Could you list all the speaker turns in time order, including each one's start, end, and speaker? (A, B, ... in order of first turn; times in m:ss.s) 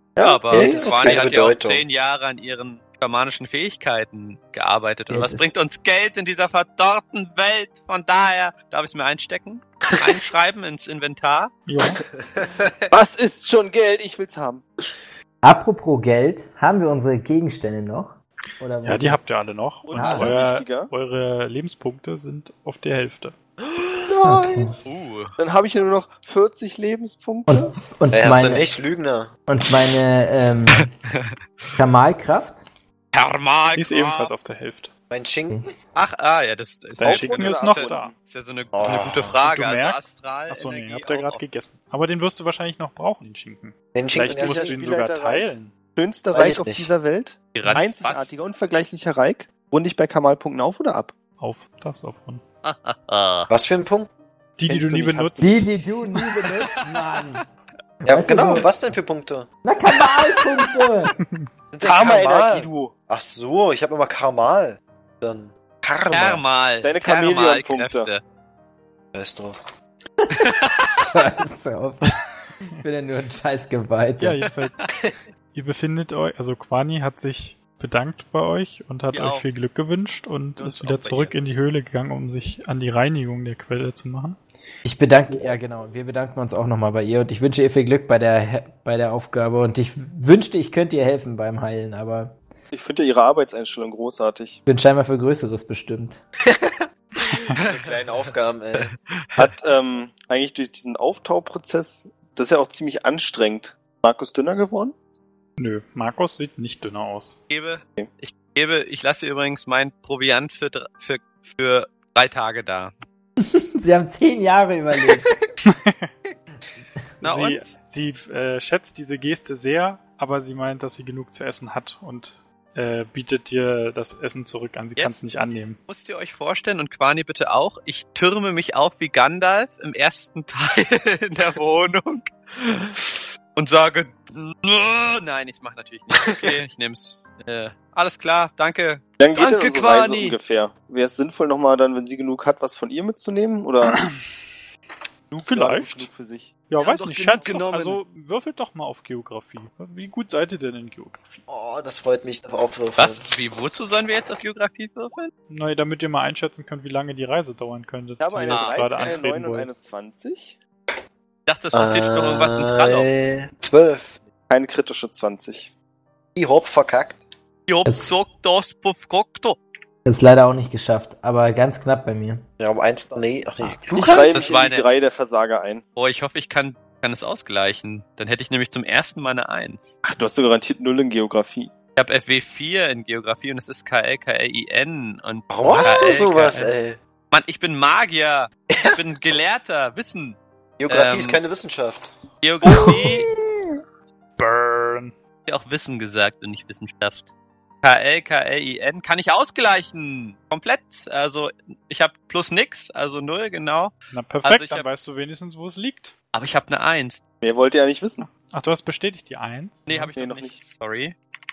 0:00.2-0:01.3 A
0:00.2-0:11.5 B
0:00.5-0:01.9 C
0:05.1-0:05.5 D
0:11.7-0:12.0 E
0:12.2-0:12.9 C
0:12.9-0:14.6 A
0:15.4-0:19.2 D
0:18.8-0:23.4 E
0:19.9-0:20.9 A
0:20.0-0:20.4 D
0:24.1-0:24.8 A
0:24.2-0:24.8 D
0:24.9-0:25.4 B
0:25.4-0:27.7 A
0:27.5-0:28.7 D
0:28.1-0:29.3 C
0:29.5-0:30.9 D
0:30.8-0:31.7 B
0:31.8-0:32.7 D
0:33.1-0:34.3 B
0:33.8-0:34.9 E
0:35.1-0:35.6 C
0:36.0-0:41.4 B
0:37.0-0:38.1 E
0:37.0-0:38.1 A
0:38.7-0:39.4 C
0:39.4-0:45.7 E
0:43.9-0:44.9 C
0:44.3-0:51.2 A
0:46.3-0:46.9 C
0:47.6-0:48.3 B
0:51.4-0:52.4 E
0:52.6-0:53.5 B
0:53.5-0:54.1 C
0:54.6-0:55.7 E
0:54.6-0:55.6 A
0:55.4-0:57.4 D
0:58.1-0:58.8 D
0:58.1-0:59.5 C
0:59.6-1:01.2 D
1:01.2-1:01.5 E
1:01.7-1:06.4 C
1:01.8-1:02.9 A
1:06.1-1:08.2 B
1:06.8-1:08.1 A
1:09.1-1:09.6 C
1:10.4-1:11.0 B
1:11.1-1:12.2 D
1:12.8-1:14.4 D
1:14.2-1:14.9 E
1:15.5-1:24.4 E
1:19.1-1:19.4 B
1:20.6-1:21.3 B
1:24.8-1:32.4 D
1:32.7-1:34.6 A
1:34.7-1:36.2 D
1:36.4-1:38.9 C
1:38.8-1:39.5 B
1:39.4-1:44.9 A
1:45.6-1:47.4 E
1:47.5-1:52.9 B
1:53.4-1:55.3 D
1:55.1-1:55.5 C
1:55.6-1:56.1 E
1:57.2-1:57.7 B
1:57.2-2:05.8 E
2:05.9-2:20.4 B
2:19.2-2:24.0 A
2:25.3-2:26.5 A
2:25.4-2:26.1 E
2:26.7-2:31.4 E
2:26.8-2:28.0 B
2:31.5-2:33.2 C
2:33.0-2:35.3 B
2:35.5-2:39.7 E
2:38.2-2:40.6 A
2:38.5-2:39.2 B
2:41.5-2:43.1 B
2:41.7-2:44.2 C
2:44.5-2:45.7 A
2:46.4-2:47.2 C
2:47.7-2:49.6 B
2:47.9-2:48.1 D
2:50.0-2:52.4 D
2:52.6-2:54.6 C
2:53.9-2:55.8 A
2:54.2-2:54.9 B
2:56.0-3:00.0 B
3:00.0-3:01.7 A
3:02.0-3:06.8 B
3:05.5-3:07.0 C
3:07.3-3:11.4 B
3:08.7-3:09.0 C
3:10.8-3:12.1 C
3:12.4-3:13.3 B
3:14.4-3:15.1 E
3:15.5-3:17.3 B
3:17.8-3:24.8 B
3:24.1-3:26.1 E
3:26.3-3:27.2 B
3:27.4-3:28.3 A
3:28.2-3:30.1 E
3:29.9-3:31.2 B
3:30.2-3:30.6 A